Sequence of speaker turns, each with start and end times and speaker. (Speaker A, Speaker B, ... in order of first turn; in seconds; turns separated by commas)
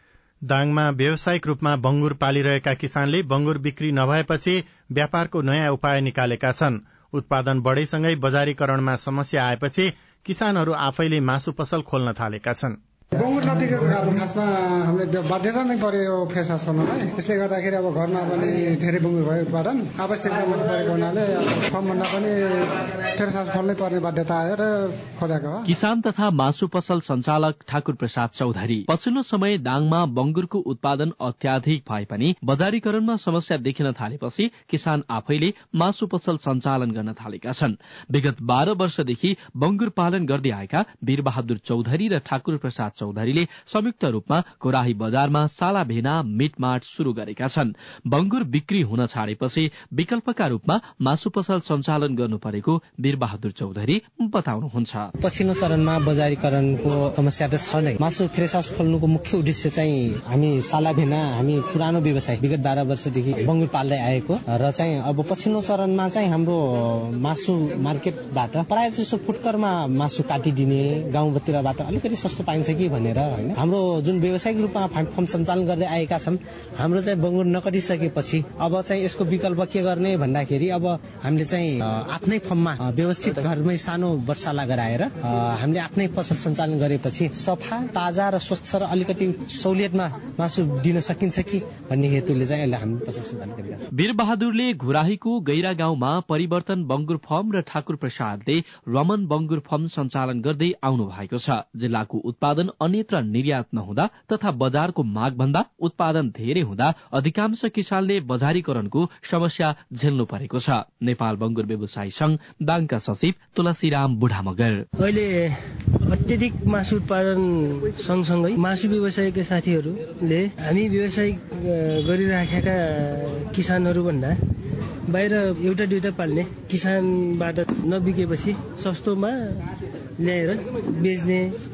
Speaker A: 0.5-12.8, Speaker B: 13.2-25.7, Speaker C: 25.7-55.1, Speaker D: 55.2-93.9, Speaker C: 93.9-114.8, Speaker E: 115.0-124.4, Speaker E: 125.1-131.5